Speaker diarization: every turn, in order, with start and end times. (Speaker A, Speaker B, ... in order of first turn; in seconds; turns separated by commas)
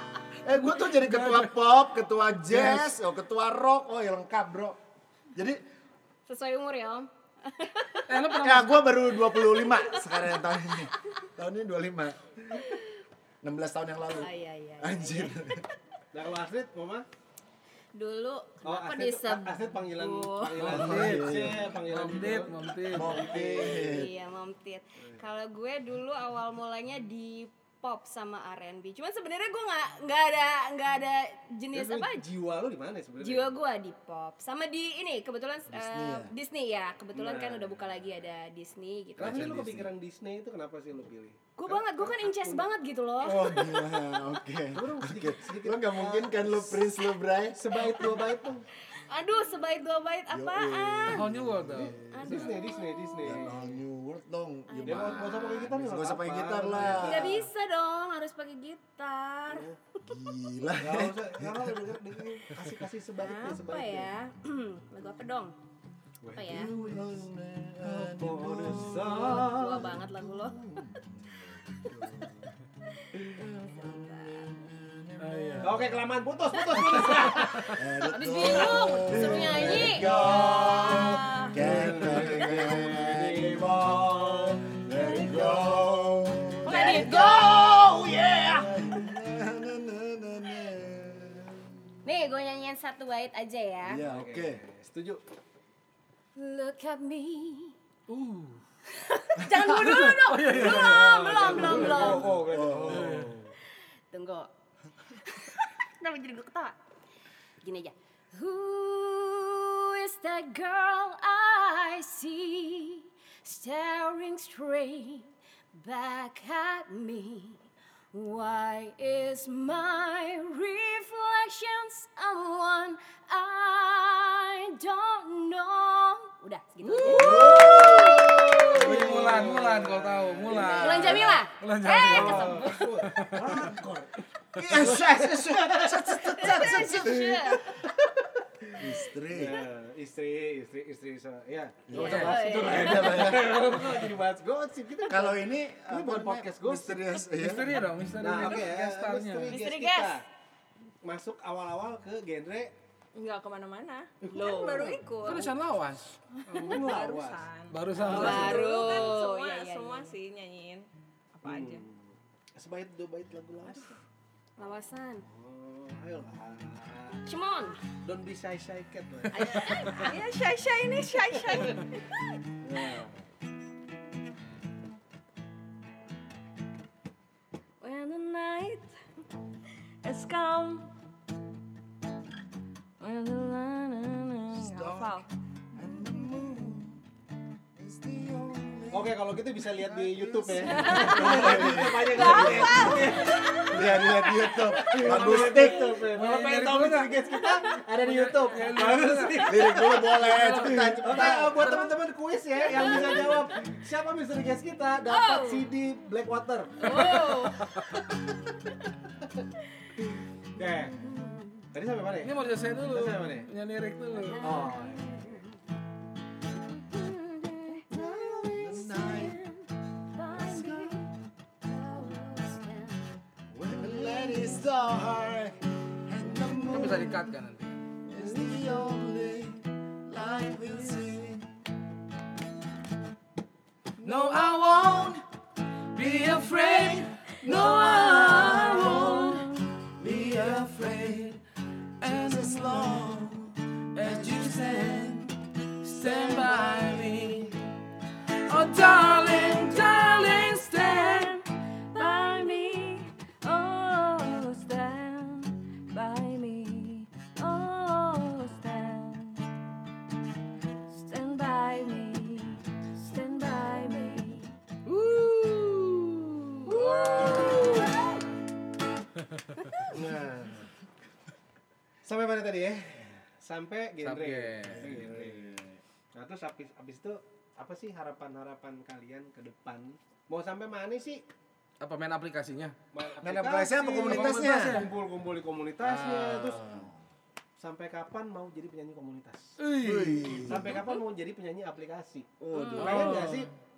Speaker A: 0.4-4.8, Speaker B: 0.6-1.6, Speaker B: 2.5-2.9, Speaker A: 5.3-5.6, Speaker C: 6.3-8.2, Speaker B: 8.1-9.0, Speaker A: 8.4-12.6, Speaker C: 9.5-10.1, Speaker A: 13.4-15.7, Speaker C: 14.1-15.3, Speaker D: 16.1-17.1, Speaker C: 17.9-20.6, Speaker D: 18.6-24.0, Speaker B: 20.6-23.3, Speaker A: 20.6-21.7, Speaker A: 22.9-24.1, Speaker C: 23.3-32.3, Speaker D: 31.7-33.6, Speaker C: 33.2-39.6, Speaker A: 35.7-36.3, Speaker D: 37.1-37.9, Speaker D: 39.2-42.7, Speaker A: 39.2-39.9, Speaker C: 41.6-44.1, Speaker A: 43.2-47.6, Speaker D: 44.7-46.9, Speaker D: 47.5-48.6, Speaker C: 47.8-48.3, Speaker C: 48.9-51.3, Speaker A: 50.3-52.5, Speaker B: 51.1-52.5, Speaker D: 51.7-53.8, Speaker C: 52.1-53.5, Speaker A: 53.2-57.5, Speaker C: 54.7-55.7, Speaker D: 54.9-57.5, Speaker C: 56.9-59.7, Speaker D: 59.5-59.8, Speaker A: 60.0-61.9, Speaker D: 60.7-64.1, Speaker C: 63.2-65.5, Speaker D: 66.2-67.1, Speaker C: 66.3-66.7, Speaker A: 66.5-72.5, Speaker D: 67.8-70.0, Speaker C: 69.0-70.6, Speaker C: 73.0-74.5, Speaker D: 73.2-73.4, Speaker A: 73.3-76.0, Speaker B: 75.2-75.9, Speaker D: 75.6-77.8, Speaker B: 77.1-77.8, Speaker A: 77.7-91.8, Speaker C: 78.0-81.1, Speaker D: 78.4-85.9, Speaker E: 80.7-81.5, Speaker B: 81.6-82.3, Speaker C: 86.7-87.8, Speaker D: 86.7-88.8, Speaker C: 92.0-94.0, Speaker A: 93.8-94.6, Speaker D: 94.0-95.2, Speaker C: 96.3-97.8, Speaker B: 98.1-98.6, Speaker C: 98.9-102.3, Speaker B: 99.5-102.2, Speaker D: 100.5-103.5, Speaker A: 100.6-103.2, Speaker B: 102.9-103.3, Speaker C: 104.1-104.5, Speaker C: 105.2-106.8, Speaker C: 107.6-117.6, Speaker C: 118.1-128.6, Speaker B: 126.8-133.8, Speaker A: 127.1-129.3, Speaker D: 128.7-131.3, Speaker C: 130.5-132.8, Speaker D: 132.1-147.2, Speaker A: 134.6-137.4, Speaker C: 136.4-137.7, Speaker A: 138.8-139.6, Speaker A: 141.9-143.7, Speaker C: 141.9-143.4, Speaker B: 142.0-142.3, Speaker A: 145.1-147.8, Speaker B: 147.3-149.6, Speaker D: 148.2-150.3, Speaker C: 149.5-150.2, Speaker D: 151.0-152.7, Speaker E: 153.2-155.5, Speaker C: 154.3-155.0, Speaker B: 155.2-156.9, Speaker E: 156.5-161.8, Speaker D: 156.6-157.5, Speaker B: 157.7-158.6, Speaker D: 158.0-158.6, Speaker C: 158.1-160.2, Speaker D: 161.4-164.0, Speaker E: 163.7-163.9, Speaker C: 164.6-165.2, Speaker D: 165.3-167.2, Speaker C: 167.3-167.8, Speaker D: 168.0-170.0, Speaker C: 169.3-170.2, Speaker E: 169.6-172.1, Speaker D: 172.6-173.2, Speaker E: 177.8-178.9, Speaker E: 180.0-180.9, Speaker E: 183.0-185.3, Speaker A: 184.5-187.0, Speaker A: 187.8-196.0, Speaker D: 188.9-207.2, Speaker E: 190.7-191.4, Speaker C: 190.9-191.2, Speaker E: 192.2-193.4, Speaker B: 195.1-197.2, Speaker B: 197.9-201.9, Speaker A: 199.4-201.8, Speaker C: 202.8-203.2, Speaker C: 205.1-205.7, Speaker C: 206.8-207.7, Speaker B: 207.0-208.0, Speaker E: 207.1-207.4, Speaker D: 210.5-211.0, Speaker D: 211.7-212.3, Speaker B: 212.2-214.6, Speaker D: 212.9-213.5, Speaker C: 214.2-215.5, Speaker D: 214.4-215.3, Speaker C: 216.9-221.1, Speaker A: 217.9-219.4, Speaker A: 220.3-221.1, Speaker C: 221.6-223.0, Speaker D: 223.6-223.8, Speaker A: 223.6-227.3, Speaker B: 226.7-227.8, Speaker A: 228.1-231.5, Speaker B: 234.0-235.2, Speaker A: 234.7-235.2, Speaker B: 235.9-241.4, Speaker A: 236.8-239.4, Speaker E: 237.5-239.4, Speaker A: 240.0-241.2, Speaker B: 242.0-243.4, Speaker A: 242.0-245.3, Speaker B: 243.9-247.6, Speaker A: 246.0-247.6, Speaker B: 248.5-251.4, Speaker E: 248.8-259.5, Speaker E: 260.9-264.5, Speaker B: 264.9-268.3, Speaker E: 266.7-268.0, Speaker C: 267.4-268.0, Speaker B: 269.3-269.9, Speaker D: 269.9-270.7, Speaker D: 272.0-275.6, Speaker B: 274.0-275.1, Speaker A: 274.7-275.8, Speaker D: 276.1-281.2, Speaker B: 281.8-282.8, Speaker D: 282.9-286.7, Speaker A: 283.2-284.9, Speaker B: 284.0-284.9, Speaker B: 285.8-286.8, Speaker A: 286.6-286.9, Speaker D: 287.6-289.6, Speaker B: 289.6-290.7, Speaker A: 289.8-290.8, Speaker D: 290.4-293.5, Speaker A: 292.4-293.4, Speaker C: 292.5-292.9, Speaker B: 292.8-293.5